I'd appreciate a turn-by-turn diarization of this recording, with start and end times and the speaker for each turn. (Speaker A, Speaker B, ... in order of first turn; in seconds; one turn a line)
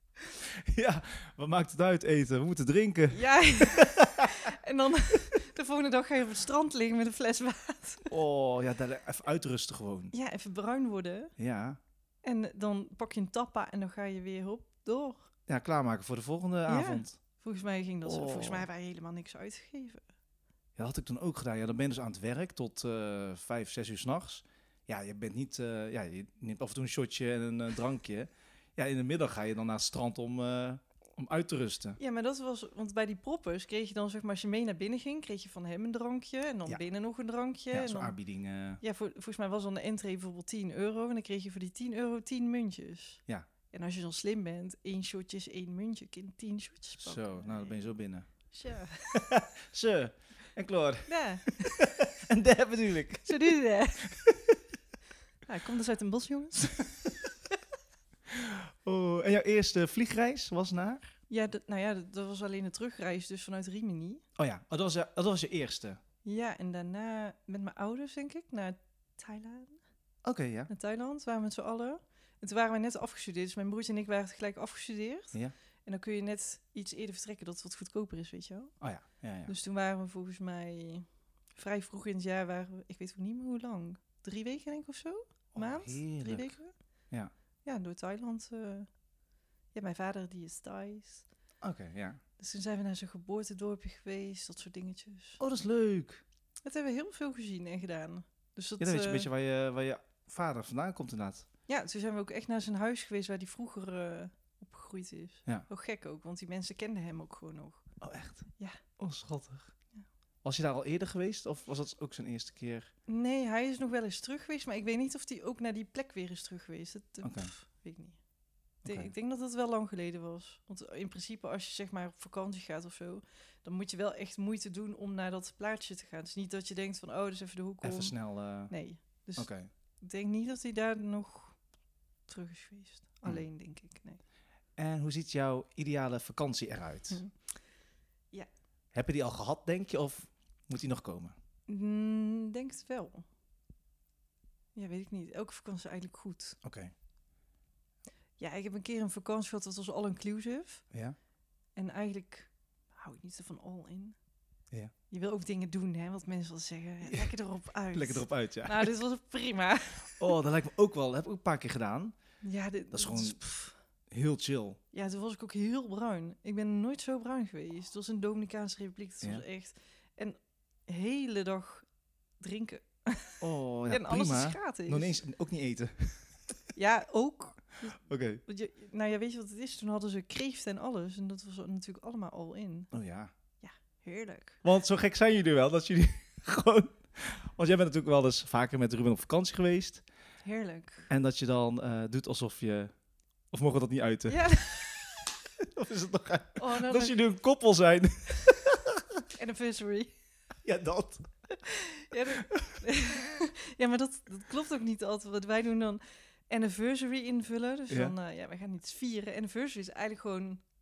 Speaker A: 0.6-4.5
Speaker B: 3.1-8.1
Speaker A: 8.1-10.1
Speaker B: 10.1-11.3
Speaker A: 11.4-11.8
Speaker B: 12.2-15.3
Speaker A: 15.5-17.2
Speaker B: 16.7-20.0
Speaker A: 18.0-18.7
Speaker A: 20.8-32.0
Speaker B: 32.0-38.2
Speaker A: 37.7-38.8
Speaker B: 38.8-47.8
Speaker A: 47.0-48.3
Speaker B: 48.5-49.2
Speaker A: 49.1-54.6
Speaker B: 51.1-51.9
Speaker B: 53.2-54.1
Speaker B: 55.5-56.8
Speaker A: 58.3-61.1
Speaker B: 61.3-64.2
Speaker A: 64.4-66.0
Speaker B: 66.2-69.8
Speaker A: 70.2-70.7
Speaker B: 70.7-78.7
Speaker A: 78.8-79.5
Speaker B: 79.5-86.7
Speaker A: 85.5-86.6
Speaker B: 87.6-88.9
Speaker B: 89.7-91.2
Speaker A: 91.6-92.2
Speaker B: 92.4-95.4
Speaker A: 95.4-96.2
Speaker B: 96.6-99.3
Speaker A: 98.8-101.5
Speaker B: 101.7-107.8
Speaker A: 108.0-108.5
Speaker A: 109.0-109.7
Speaker A: 110.4-112.9
Speaker B: 113.1-118.2
Speaker A: 117.2-117.5
Speaker A: 118.8-119.1
Speaker B: 118.8-128.1
Speaker A: 127.8-128.7
Speaker B: 128.7-129.5
Speaker A: 129.3-129.7
Speaker B: 130.0-131.6
Speaker B: 132.3-134.2
Speaker A: 134.8-137.2
Speaker A: 138.9-141.3
Speaker B: 141.7-143.2
Speaker B: 144.7-146.6
Speaker A: 146.6-146.9
Speaker B: 148.4-150.8
Speaker B: 151.8-154.2
Speaker B: 155.1-160.3
Speaker A: 157.0-157.3
Speaker A: 157.9-158.9
Speaker A: 160.2-162.1
Speaker B: 162.4-163.8
Speaker A: 162.9-163.4
Speaker A: 164.1-164.8
Speaker B: 164.9-171.8
Speaker B: 172.4-175.2
Speaker A: 173.4-176.3
Speaker B: 176.7-182.9
Speaker A: 177.9-178.4
Speaker A: 182.9-183.3
Speaker B: 183.6-184.6
Speaker A: 184.6-190.0
Speaker B: 190.4-191.1
Speaker A: 191.1-192.9
Speaker A: 193.5-194.5
Speaker B: 194.3-195.3
Speaker A: 195.6-199.0
Speaker B: 196.6-197.2
Speaker B: 199.3-200.1
Speaker A: 200.6-201.3
Speaker B: 201.6-210.6
Speaker A: 202.3-202.8